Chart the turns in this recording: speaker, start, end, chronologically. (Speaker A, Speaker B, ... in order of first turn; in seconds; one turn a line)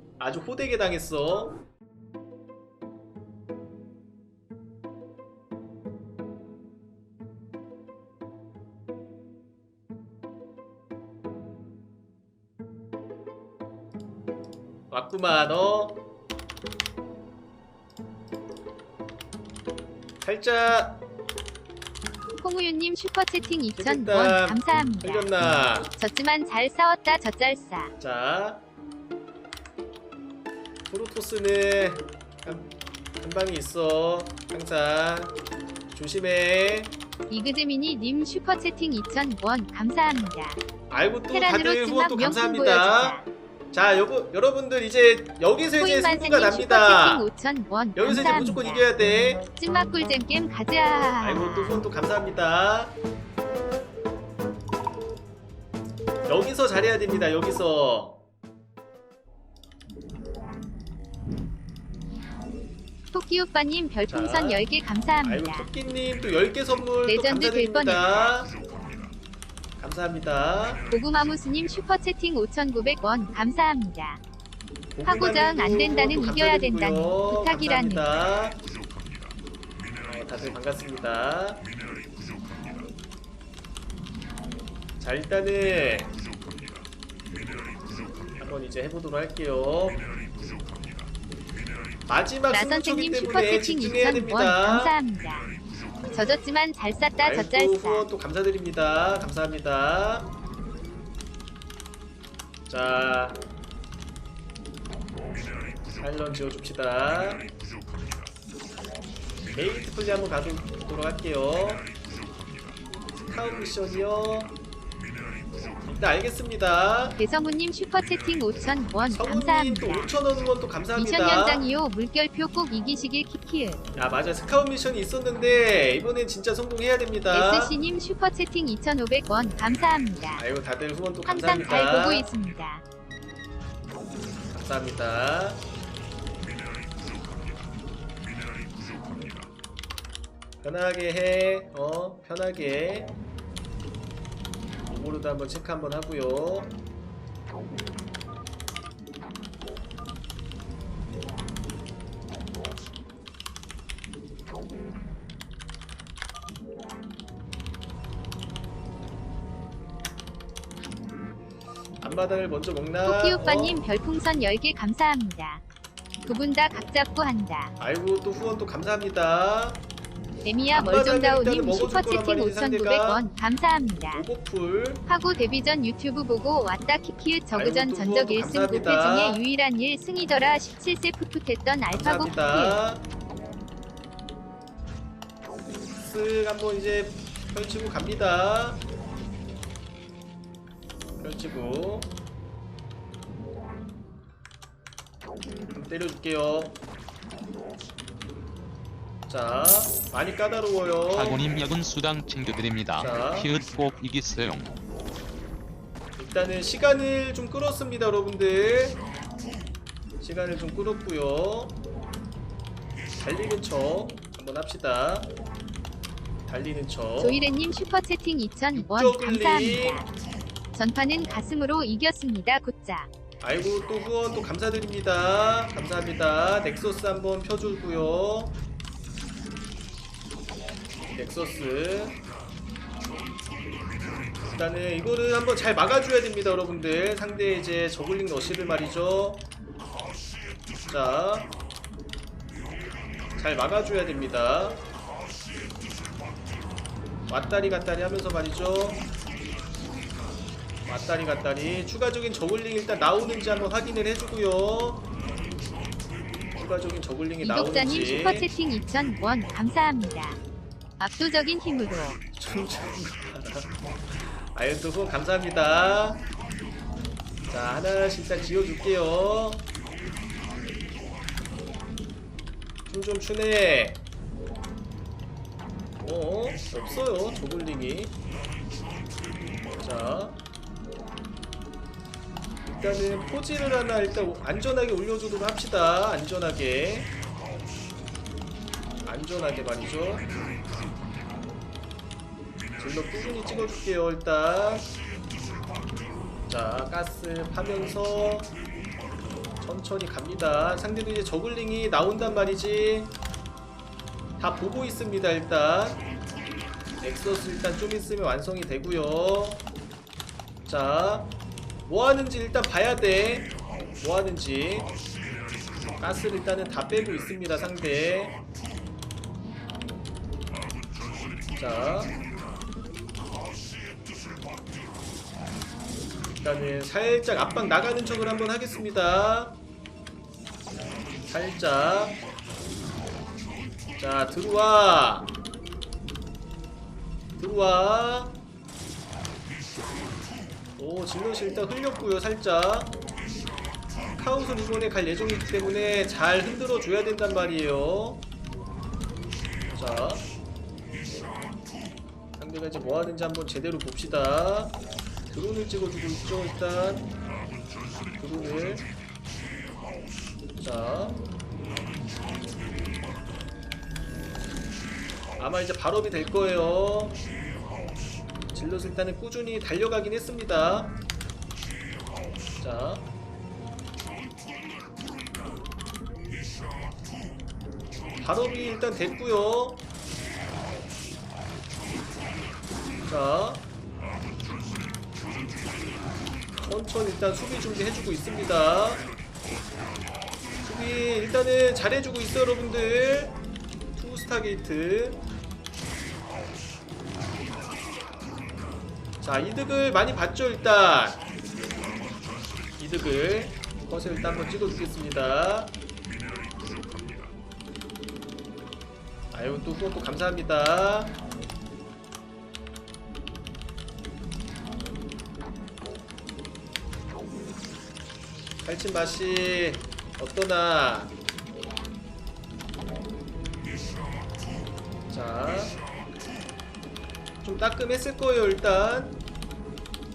Speaker A: 0.2-1.6
Speaker A: 14.9-16.0
Speaker A: 20.2-21.0
Speaker B: 22.4-25.3
Speaker A: 23.8-25.9
Speaker B: 25.9-27.9
Speaker A: 28.0-28.6
Speaker A: 30.9-35.4
Speaker A: 35.9-37.0
Speaker B: 37.3-40.6
Speaker A: 40.9-43.2
Speaker B: 41.3-43.3
Speaker A: 43.7-47.3
Speaker B: 45.8-48.9
Speaker A: 48.0-49.4
Speaker B: 49.5-51.8
Speaker A: 51.2-53.0
Speaker A: 56.3-58.2
Speaker B: 63.1-65.7
Speaker A: 64.1-64.7
Speaker A: 65.2-68.5
Speaker B: 67.1-68.2
Speaker A: 69.8-70.8
Speaker B: 70.9-74.2
Speaker A: 75.0-78.6
Speaker B: 75.0-78.1
Speaker A: 80.0-81.7
Speaker A: 85.0-86.2
Speaker A: 88.4-90.0
Speaker A: 92.1-95.0
Speaker B: 92.5-95.5
Speaker B: 96.1-98.1
Speaker A: 97.2-100.3
Speaker A: 102.7-103.4
Speaker A: 106.0-107.5
Speaker A: 109.5-111.9
Speaker A: 113.2-114.6
Speaker A: 115.9-117.2
Speaker B: 117.2-120.2
Speaker A: 119.1-121.7
Speaker B: 121.0-123.8
Speaker A: 124.0-127.8
Speaker B: 127.3-130.5
Speaker A: 130.4-132.3
Speaker B: 131.2-132.8
Speaker A: 134.5-135.6
Speaker A: 140.6-143.1
Speaker A: 144.9-146.7
Speaker A: 162.0-163.8
Speaker B: 163.0-165.6
Speaker B: 166.2-167.7
Speaker A: 167.8-169.8
Speaker B: 170.4-174.3
Speaker A: 170.7-173.3
Speaker A: 174.1-175.0
Speaker B: 175.1-182.8
Speaker A: 177.5-179.4
Speaker A: 181.9-183.0
Speaker A: 186.0-188.8
Speaker A: 191.2-192.1
Speaker A: 195.7-196.8
Speaker A: 199.3-201.4
Speaker C: 201.1-204.7
Speaker A: 202.9-203.5
Speaker A: 206.2-209.0
Speaker A: 210.2-211.8
Speaker A: 213.2-215.3
Speaker A: 216.5-217.4
Speaker B: 217.2-220.1
Speaker A: 218.8-220.0
Speaker B: 220.7-223.1
Speaker A: 223.4-228.6
Speaker A: 231.2-232.2
Speaker A: 234.5-239.5
Speaker A: 240.9-241.5
Speaker A: 243.4-244.8
Speaker A: 247.3-249.0
Speaker A: 250.9-255.1
Speaker A: 256.5-258.5
Speaker B: 257.4-260.4
Speaker B: 261.0-262.2
Speaker A: 262.3-266.2
Speaker A: 267.5-269.7
Speaker A: 272.9-274.0
Speaker A: 276.0-278.2
Speaker A: 279.8-280.4
Speaker A: 282.7-287.1
Speaker A: 289.1-290.3
Speaker A: 292.8-294.9
Speaker A: 296.5-298.5
Speaker A: 299.6-303.2
Speaker A: 304.4-306.0
Speaker A: 307.0-309.6
Speaker A: 310.7-311.3
Speaker A: 311.9-314.9
Speaker A: 316.0-318.4
Speaker A: 321.6-322.1
Speaker A: 326.4-329.6
Speaker A: 331.3-332.2
Speaker A: 334.0-335.3
Speaker A: 337.4-338.4
Speaker A: 340.8-342.9
Speaker A: 344.2-348.2
Speaker A: 349.7-350.3
Speaker A: 352.4-354.8
Speaker A: 355.3-357.1
Speaker A: 358.2-358.9
Speaker A: 360.6-361.2
Speaker A: 365.4-367.2
Speaker A: 368.5-371.0
Speaker A: 372.6-373.1
Speaker A: 378.2-379.8
Speaker A: 383.1-383.6
Speaker A: 386.6-389.1
Speaker A: 390.6-393.4
Speaker A: 394.0-395.2
Speaker A: 399.2-401.2
Speaker A: 402.8-405.7
Speaker A: 409.3-411.2
Speaker A: 418.6-421.1
Speaker A: 425.1-425.8
Speaker A: 427.4-429.2